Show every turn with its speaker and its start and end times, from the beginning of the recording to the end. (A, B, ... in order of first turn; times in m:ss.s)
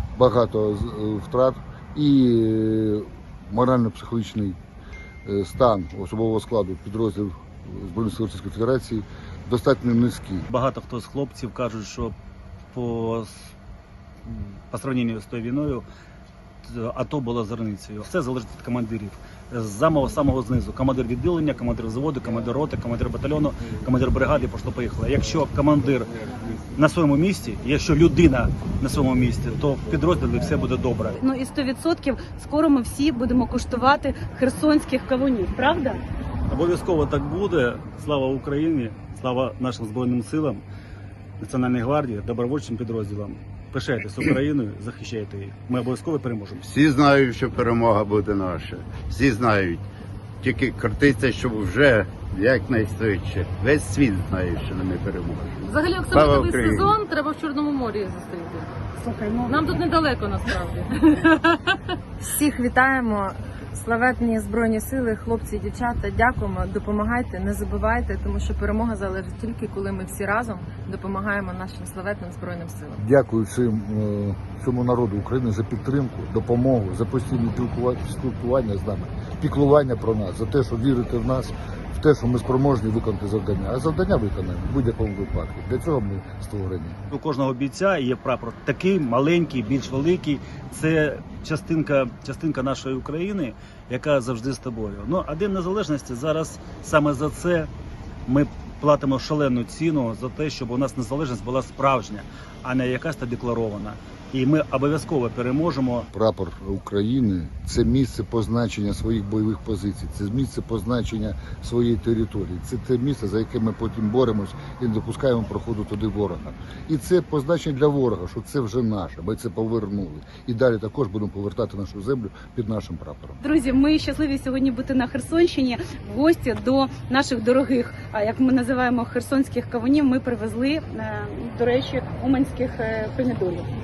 0:00.1-0:04.6 A
0:05.2-0:10.5 A
0:10.5-0:12.1 B
0:12.7-0:13.5 B
0:14.7-0:15.8 B
0:16.6-0:26.1 B
0:26.8-0:31.2 B
0:31.2-0:36.0 C
0:36.5-0:40.6 B
0:41.4-0:46.6 B
0:46.7-0:49.8 D
0:50.4-0:56.9 D
0:55.7-0:58.7 E
0:59.0-0:59.7 C
0:59.5-1:01.8 E
1:02.2-1:13.0 F
1:13.0-1:27.0 A
1:27.1-1:37.7 B
1:38.3-1:46.1 B
1:46.1-2:03.4 A
2:03.4-2:13.7 C